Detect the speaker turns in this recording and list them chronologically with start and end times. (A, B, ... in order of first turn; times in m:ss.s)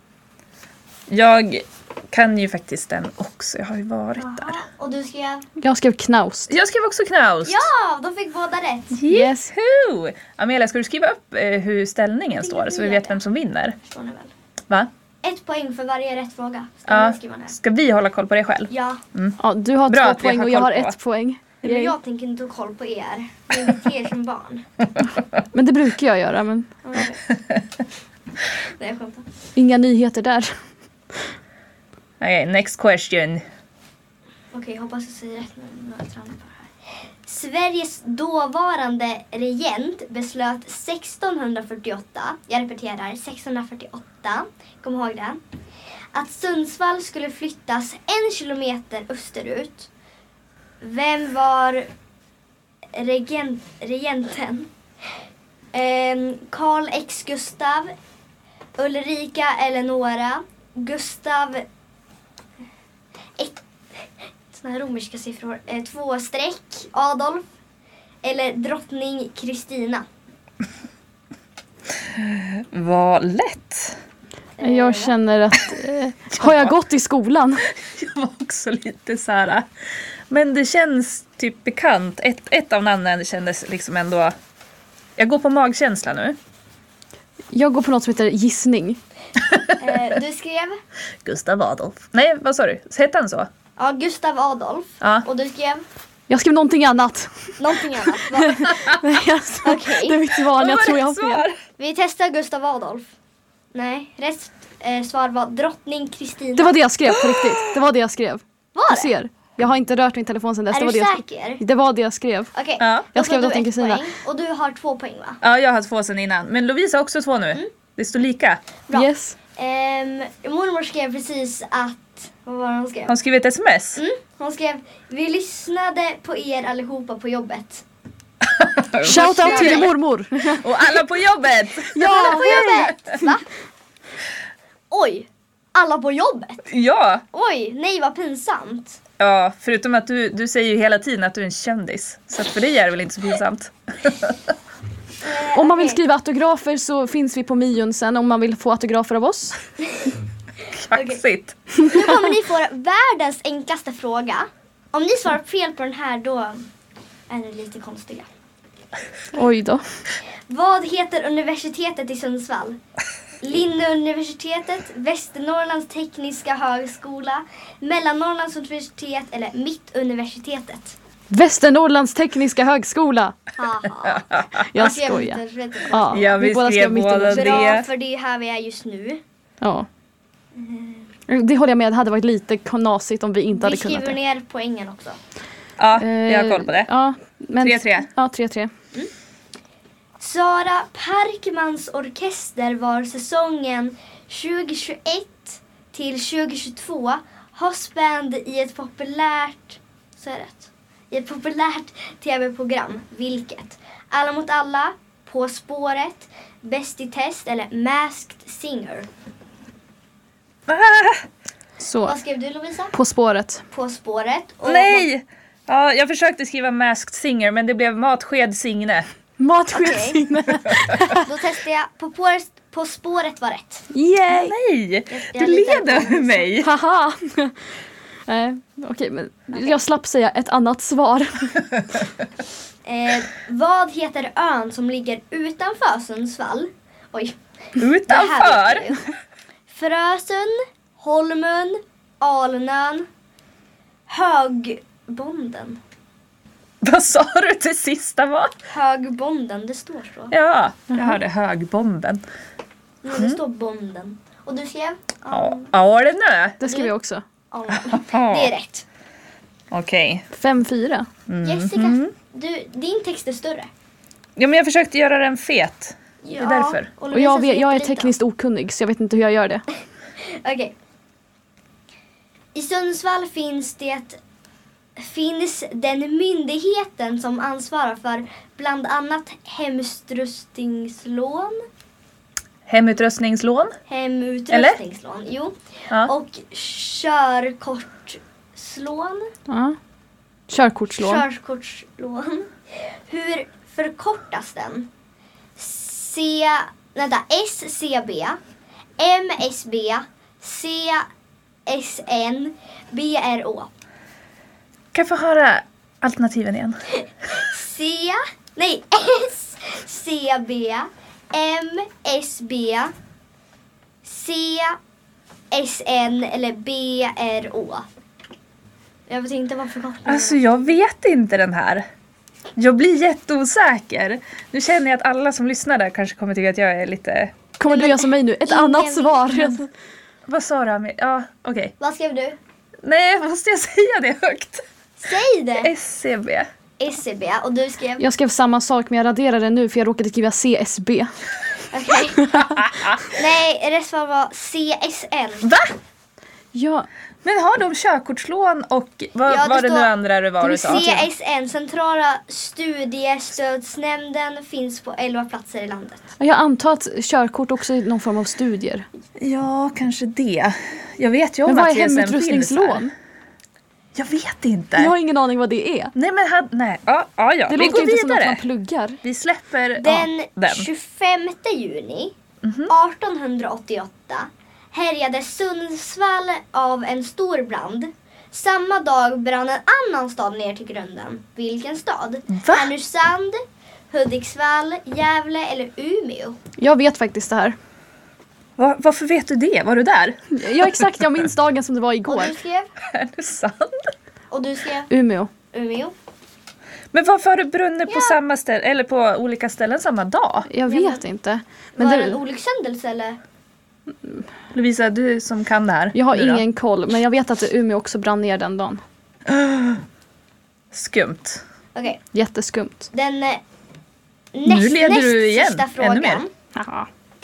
0:01.1-0:04.6 A
0:04.2-0:05.4 B
0:05.6-0:06.5 C
0:06.5-0:07.7 A
0:07.4-0:09.0 B
0:08.9-0:13.8 A
0:09.1-0:09.5 C
0:12.4-0:13.2 B
0:13.8-0:14.3 B
0:15.2-0:17.5 B
0:16.9-0:21.0 A
0:18.7-0:19.0 B
0:19.4-0:22.0 C
0:21.6-0:24.6 B
0:25.5-0:26.8 C
0:26.8-0:27.2 B
0:28.8-0:29.2 B
0:29.6-0:30.6 C
0:32.2-0:33.4 A
0:34.5-0:45.4 B
0:46.1-0:49.9 B
0:50.8-0:51.9 B
0:52.9-0:54.7 B
0:55.7-0:57.9 B
0:58.8-1:01.6 B
1:03.4-1:07.4 B
1:08.2-1:10.0 B
1:12.0-1:14.0 A
1:14.6-1:15.1 B
1:14.6-1:17.7 C
1:16.3-1:16.7 A
1:17.7-1:19.7 A
1:20.3-1:24.3 A
1:25.2-1:26.4 A
1:27.5-1:29.0 C
1:29.4-1:30.0 A
1:29.8-1:30.8 B
1:31.2-1:33.5 A
1:33.8-1:35.8 B
1:35.0-1:35.3 A
1:36.3-1:41.4 C
1:37.6-1:38.7 B
1:39.6-1:40.2 B
1:40.5-1:41.6 A
1:41.8-1:43.1 B
1:43.7-1:46.8 B
1:46.6-1:52.5 C
1:47.1-1:47.8 A
1:48.7-1:49.1 B
1:50.7-1:51.6 B
1:52.5-1:55.4 B
1:52.8-1:53.1 A
1:53.1-1:54.1 C
1:55.4-1:58.6 A
1:58.9-2:03.1 B
1:58.9-1:59.4 C
2:03.1-2:04.0 A
2:04.0-2:07.8 B
2:08.4-2:09.9 A
2:09.0-2:09.9 B
2:09.0-2:10.7 C
2:10.5-2:13.2 A
2:11.9-2:12.7 C
2:12.0-2:13.4 B
2:14.9-2:16.7 B
2:16.7-2:17.2 A
2:17.3-2:19.0 B
2:19.2-2:24.5 A
2:25.2-2:26.0 B
2:25.5-2:29.6 C
2:29.9-2:30.2 B
2:30.7-2:31.6 A
2:30.9-2:31.2 B
2:31.8-2:36.7 B
2:37.3-2:38.3 B
2:39.3-2:39.8 C
2:40.5-2:42.8 B
2:43.4-2:51.0 B
2:51.3-2:53.4 C
2:53.6-2:56.4 B
2:54.0-2:54.7 A
2:54.7-2:57.7 C
2:56.1-2:57.9 A
2:57.3-2:59.2 B
2:59.6-2:59.9 C
3:00.5-3:01.1 B
3:01.3-3:04.2 C
3:03.6-3:05.2 B
3:05.8-3:06.9 A
3:06.0-3:08.7 C
3:07.6-3:08.1 A
3:10.2-3:29.1 B
3:30.7-3:31.2 A
3:31.8-3:32.2 C
3:32.0-3:32.9 B
3:32.9-3:33.6 C
3:33.7-3:35.1 B
3:34.6-3:39.1 A
3:39.4-3:41.3 C
3:39.7-3:40.3 B
3:41.1-3:43.9 B
3:43.9-3:44.5 C
3:44.3-3:46.7 A
3:45.1-3:46.5 B
3:46.6-3:47.6 C
3:48.3-3:51.7 C
3:49.5-3:49.8 B
3:52.8-3:59.0 B
3:57.8-3:59.0 A
3:59.7-4:03.1 B
4:04.1-4:05.8 B
4:06.8-4:08.5 A
4:08.7-4:10.3 B
4:10.3-4:12.2 A
4:13.0-4:15.7 B
4:13.1-4:13.4 A
4:15.3-4:16.6 A
4:16.6-4:17.2 C
4:16.6-4:16.9 B
4:17.5-4:18.8 B
4:17.7-4:18.5 A
4:19.7-4:20.2 A
4:20.3-4:21.1 C
4:21.3-4:22.1 A
4:21.4-4:23.7 B
4:24.4-4:26.9 A
4:26.2-4:28.1 B
4:27.1-4:29.6 C
4:30.2-4:30.7 B
4:32.5-4:34.2 B
4:35.0-4:41.6 B
4:42.7-4:43.8 A
4:43.9-4:49.3 B
4:44.5-4:44.8 A
4:49.5-4:49.8 C
4:50.5-4:51.2 C
4:51.0-4:54.9 B
4:55.6-4:58.4 B
4:59.0-5:01.1 B
5:01.7-5:03.7 B
5:04.9-5:06.8 A
5:06.9-5:12.9 B
5:14.0-5:14.8 B
5:15.5-5:17.9 B
5:19.1-5:20.4 B
5:20.0-5:21.8 A
5:22.6-5:27.3 A
5:27.6-5:29.7 C
5:27.6-5:29.6 B
5:30.3-5:31.7 A
5:31.8-5:32.4 B
5:32.8-5:34.6 A
5:35.0-5:35.7 B
5:35.6-5:36.5 A
5:36.8-5:38.0 B
5:38.0-5:41.1 C
5:41.7-5:42.4 B
5:42.3-5:42.6 C
5:42.4-5:43.0 A
5:43.1-5:45.5 B
5:45.4-5:45.8 A
5:46.5-5:46.9 C
5:47.2-5:50.8 A
5:49.3-5:49.9 B
5:50.4-5:51.1 C
5:50.6-5:56.1 B
5:56.2-5:58.8 C
5:59.2-6:02.9 A
6:01.5-6:02.9 C
6:03.9-6:04.9 A
6:04.8-6:05.9 C
6:05.9-6:08.4 A
6:07.5-6:09.0 C
6:09.0-6:10.7 A
6:09.8-6:12.1 B
6:12.4-6:12.7 A
6:12.7-6:26.4 B
6:22.3-6:22.7 A
6:26.6-6:27.6 C
6:28.6-6:30.9 A
6:30.3-6:32.4 C
6:32.0-6:32.7 B
6:32.8-6:33.9 A
6:34.3-6:34.9 B
6:34.9-6:35.3 C
6:35.5-6:35.9 B
6:36.9-6:40.5 A
6:37.9-6:38.2 B
6:40.5-6:42.2 C
6:40.7-6:41.0 B
6:41.8-6:43.2 B
6:44.5-6:46.4 A
6:45.9-6:48.8 C
6:49.2-6:49.8 A
6:50.7-6:51.4 A
6:51.7-6:52.0 B
6:52.1-6:52.9 C
6:52.9-6:53.4 B
6:54.3-6:56.3 B
6:54.4-6:56.2 A
6:56.6-6:56.9 C